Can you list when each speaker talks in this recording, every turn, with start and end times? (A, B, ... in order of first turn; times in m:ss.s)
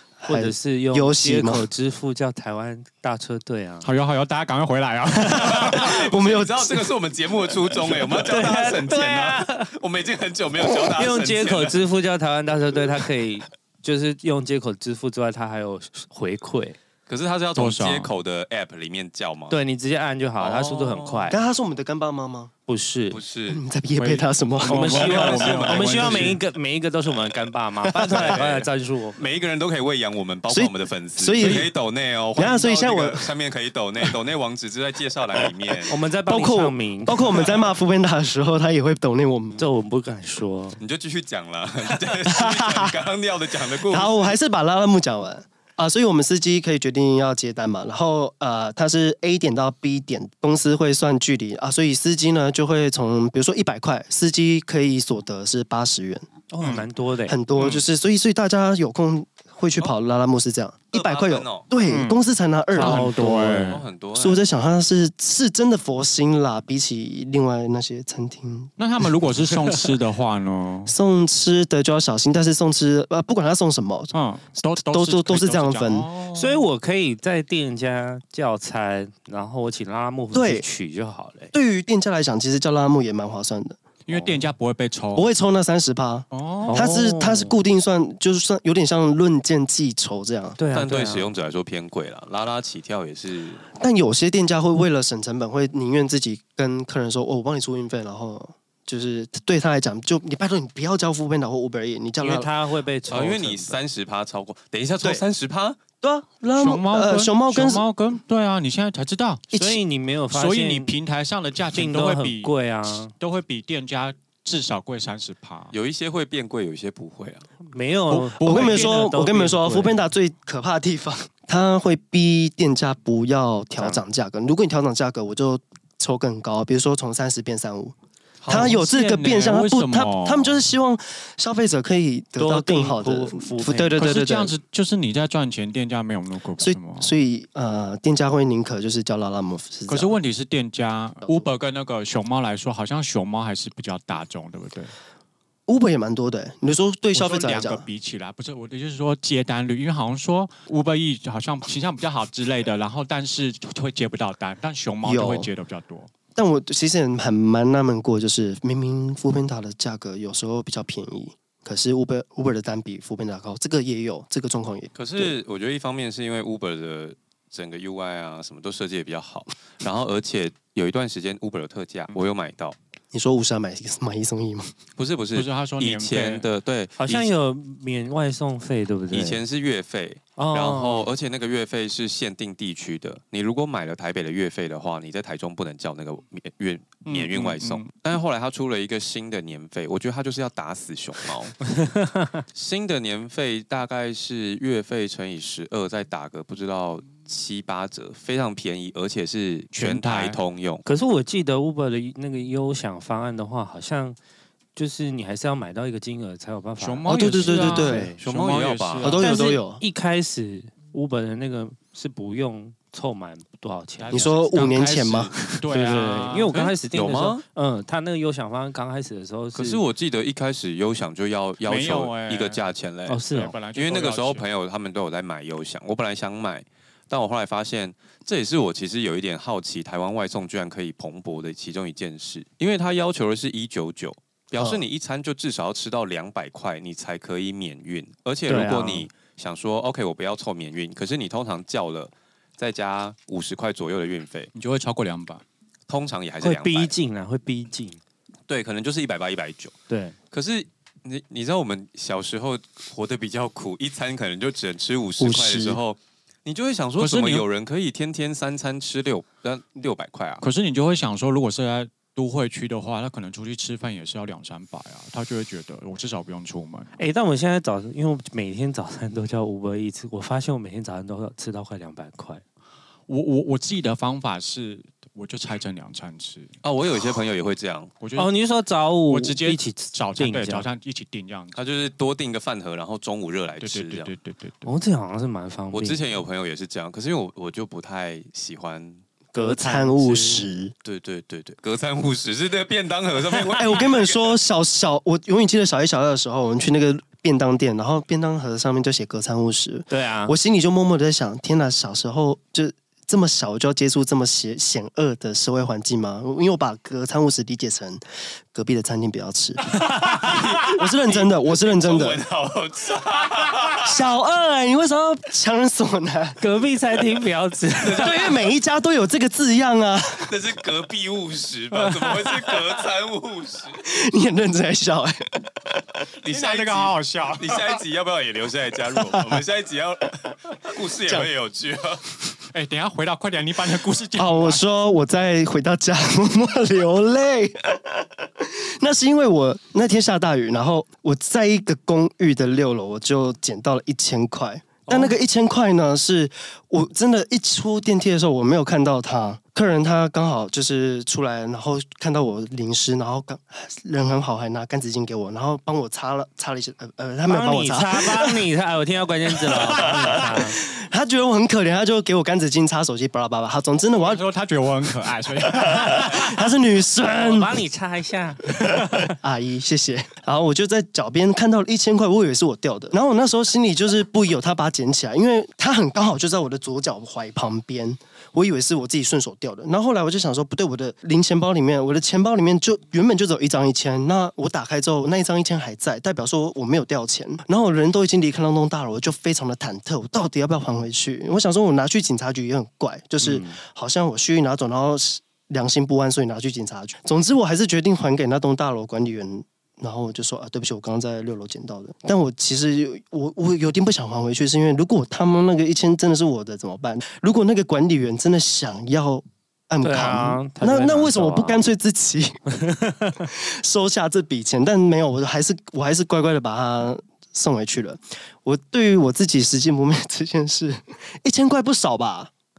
0:00.2-0:01.7 A
0:00.3-0:03.9 B
0:03.8-0:06.0 C
0:05.3-0:06.9 A
0:05.3-0:11.8 D
0:08.1-0:09.7 B
0:10.9-0:16.8 B
0:17.1-0:19.6 D
0:17.6-0:18.1 C
0:19.5-0:21.4 B
0:20.4-0:21.3 D
0:21.3-0:22.5 A
0:22.7-0:23.2 B
0:23.1-0:23.6 D
0:23.5-0:25.2 A
0:24.0-0:26.4 C
0:24.7-0:29.2 B
0:24.8-0:26.4 D
0:27.9-0:35.9 D
0:30.5-0:31.7 A
0:32.4-0:33.3 A
0:35.9-0:37.5 B
0:36.3-0:39.6 A
0:39.6-0:40.8 B
0:40.8-0:44.3 D
0:42.3-0:42.9 A
0:43.8-0:56.3 A
0:56.5-0:57.4 B
0:57.3-1:03.5 A
0:57.6-0:57.8 C
1:00.9-1:01.7 D
1:01.9-1:02.2 C
1:02.7-1:03.8 B
1:02.7-1:03.8 C
1:03.6-1:04.4 D
1:04.1-1:08.7 A
1:08.8-1:10.9 C
1:10.8-1:14.1 A
1:14.1-1:16.6 C
1:14.8-1:16.1 A
1:16.3-1:21.5 B
1:20.3-1:20.6 A
1:21.5-1:23.8 A
1:24.1-1:25.3 C
1:24.1-1:24.4 B
1:25.1-1:30.6 A
1:26.3-1:26.9 C
1:26.6-1:27.5 B
1:30.6-1:31.3 B
1:30.7-1:33.6 D
1:33.8-1:42.5 A
1:42.2-1:43.8 B
1:43.1-1:45.8 D
1:46.0-1:47.8 A
1:46.6-1:49.4 C
1:49.5-1:49.8 A
1:49.5-1:50.9 B
1:50.3-1:52.5 C
1:51.7-1:53.1 B
1:53.2-1:55.7 C
1:55.7-1:57.5 D
1:57.7-2:00.0 B
1:58.1-1:59.1 C
1:58.4-2:07.9 A
2:08.4-2:10.6 C
2:08.5-2:14.5 A
2:12.4-2:14.1 B
2:14.0-2:17.1 C
2:16.6-2:20.1 A
2:19.9-2:24.9 C
2:25.7-2:27.9 A
2:27.1-2:36.1 C
2:35.0-2:35.5 A
2:36.3-2:45.3 A
2:45.0-2:52.8 D
2:53.1-2:54.7 A
2:55.0-2:57.3 D
2:55.3-2:56.4 C
2:57.0-2:59.4 B
2:59.1-3:11.6 D
3:00.4-3:01.1 B
3:07.0-3:07.9 C
3:11.8-3:12.4 B
3:12.5-3:20.8 D
3:19.7-3:20.4 C
3:20.8-3:24.2 B
3:24.8-3:28.2 B
3:26.8-3:29.3 C
3:27.0-3:28.1 A
3:28.2-3:29.2 D
3:29.0-3:29.8 A
3:29.2-3:34.3 B
3:34.0-3:36.6 C
3:34.1-3:35.7 A
3:35.7-3:39.8 B
3:36.5-3:37.4 D
3:39.5-4:04.5 D
3:41.6-3:42.6 C
3:43.1-3:43.6 B
3:43.3-3:44.4 C
3:54.6-3:54.8 A
3:58.5-3:59.1 B
4:04.5-4:05.4 C
4:05.9-4:06.9 D
4:06.4-4:08.0 B
4:08.5-4:09.7 D
4:09.9-4:10.2 B
4:10.3-4:20.4 D
4:15.2-4:15.8 A
4:17.0-4:17.4 C
4:20.4-4:26.9 C
4:27.0-4:32.4 B
4:33.1-4:36.5 C
4:36.6-4:37.9 D
4:38.0-4:38.3 C
4:38.1-4:40.7 B
4:39.1-4:41.6 C
4:41.5-4:44.1 D
4:43.6-4:44.7 C
4:44.6-4:46.0 B
4:45.7-4:49.0 D
4:49.3-4:50.7 A
4:49.3-4:50.5 B
4:50.8-4:54.4 D
4:53.5-5:08.0 A
4:59.9-5:00.3 B
5:08.5-5:09.6 A
5:09.7-5:10.4 B
5:10.1-5:13.9 D
5:10.6-5:12.2 A
5:13.8-5:16.4 A
5:16.4-5:18.3 B
5:17.8-5:18.4 D
5:18.0-5:20.3 A
5:20.2-5:23.8 D
5:23.8-5:25.8 A
5:26.2-5:32.0 D
5:26.3-5:27.8 C
5:32.5-5:34.6 C
5:34.2-5:58.5 A
5:44.9-5:45.1 B
5:57.2-6:00.6 B
5:59.5-6:04.2 A
6:04.0-6:06.5 C
6:05.4-6:07.6 A
6:07.1-6:09.1 B
6:09.0-6:52.4 A
6:33.2-6:33.6 B
6:49.8-6:51.6 B
6:52.5-6:53.3 B
6:53.3-7:02.3 A